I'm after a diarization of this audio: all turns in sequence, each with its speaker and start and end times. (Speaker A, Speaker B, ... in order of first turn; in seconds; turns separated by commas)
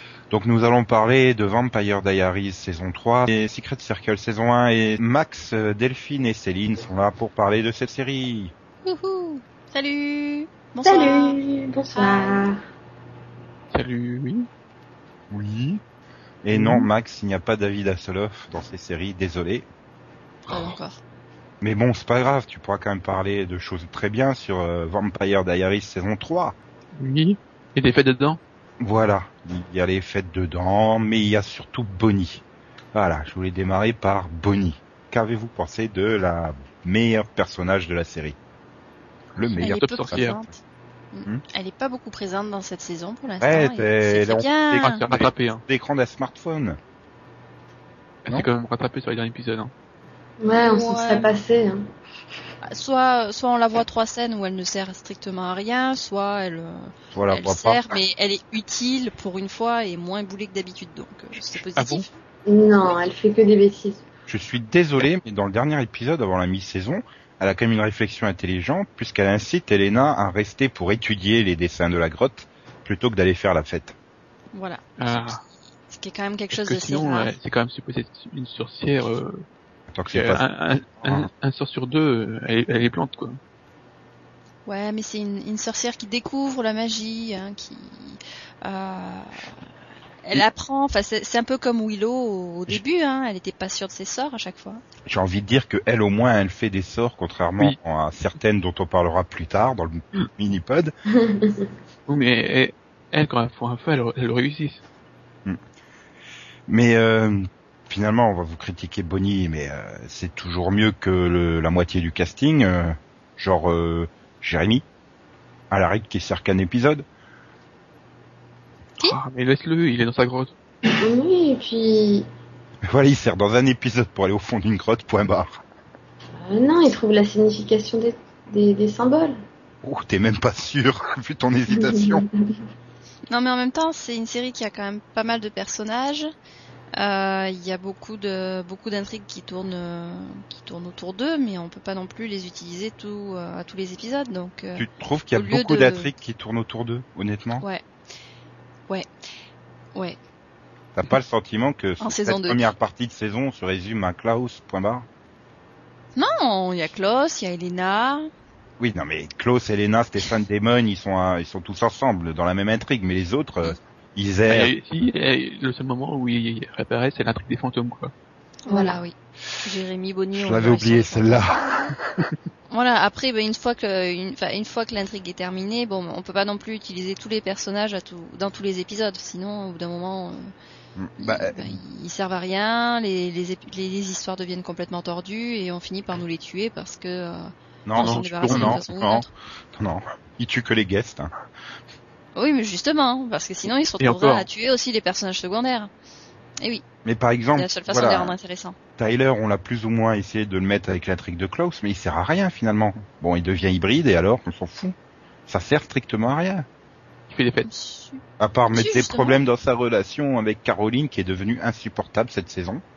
Speaker A: 0.3-8.5, Speaker B: 8.8-11.4, Speaker C: 10.8-12.6, Speaker B: 11.9-12.4, Speaker D: 13.7-14.5, Speaker A: 15.3-15.8, Speaker A: 16.4-19.6, Speaker D: 16.5-16.9, Speaker B: 20.4-21.0, Speaker A: 21.6-26.6, Speaker D: 26.9-28.4, Speaker A: 28.8-32.4, Speaker A: 32.9-38.4, Speaker A: 39.3-40.3, Speaker B: 39.4-40.6, Speaker D: 39.6-40.4, Speaker B: 41.1-45.0, Speaker A: 43.4-46.8, Speaker D: 44.8-45.6, Speaker D: 48.2-49.7, Speaker C: 50.4-51.8, Speaker B: 50.5-51.3, Speaker B: 52.6-62.1, Speaker A: 57.1-57.9, Speaker D: 61.7-62.0, Speaker C: 62.5-64.0, Speaker A: 64.3-73.9, Speaker B: 74.5-77.3, Speaker D: 75.0-75.4, Speaker D: 76.5-79.4, Speaker A: 79.9-80.4, Speaker D: 80.1-83.4, Speaker A: 81.0-81.3, Speaker B: 84.7-89.5, Speaker B: 90.2-94.8, Speaker A: 95.0-100.9, Speaker C: 101.1-101.7, Speaker D: 102.1-104.8, Speaker A: 106.7-114.8, Speaker A: 115.7-117.0, Speaker D: 119.0-120.5, Speaker C: 120.9-122.2, Speaker A: 122.9-125.6, Speaker C: 126.4-129.3, Speaker A: 129.8-132.2, Speaker C: 131.7-132.6, Speaker B: 133.3-136.3, Speaker B: 137.0-146.1, Speaker A: 144.8-147.6, Speaker A: 150.9-155.1, Speaker B: 152.0-152.7, Speaker B: 156.2-158.3, Speaker A: 158.8-164.7, Speaker D: 164.5-168.1, Speaker B: 168.6-171.5, Speaker C: 168.7-169.0, Speaker A: 170.3-172.2, Speaker B: 172.7-180.5, Speaker A: 181.0-181.6, Speaker B: 181.2-189.3, Speaker A: 187.8-191.3, Speaker D: 188.0-188.8, Speaker B: 192.3-195.9, Speaker D: 194.0-194.4, Speaker A: 197.0-198.3, Speaker B: 197.5-198.8, Speaker A: 199.0-204.9, Speaker A: 205.5-206.7, Speaker D: 207.3-207.7, Speaker B: 207.7-209.4, Speaker A: 208.4-212.8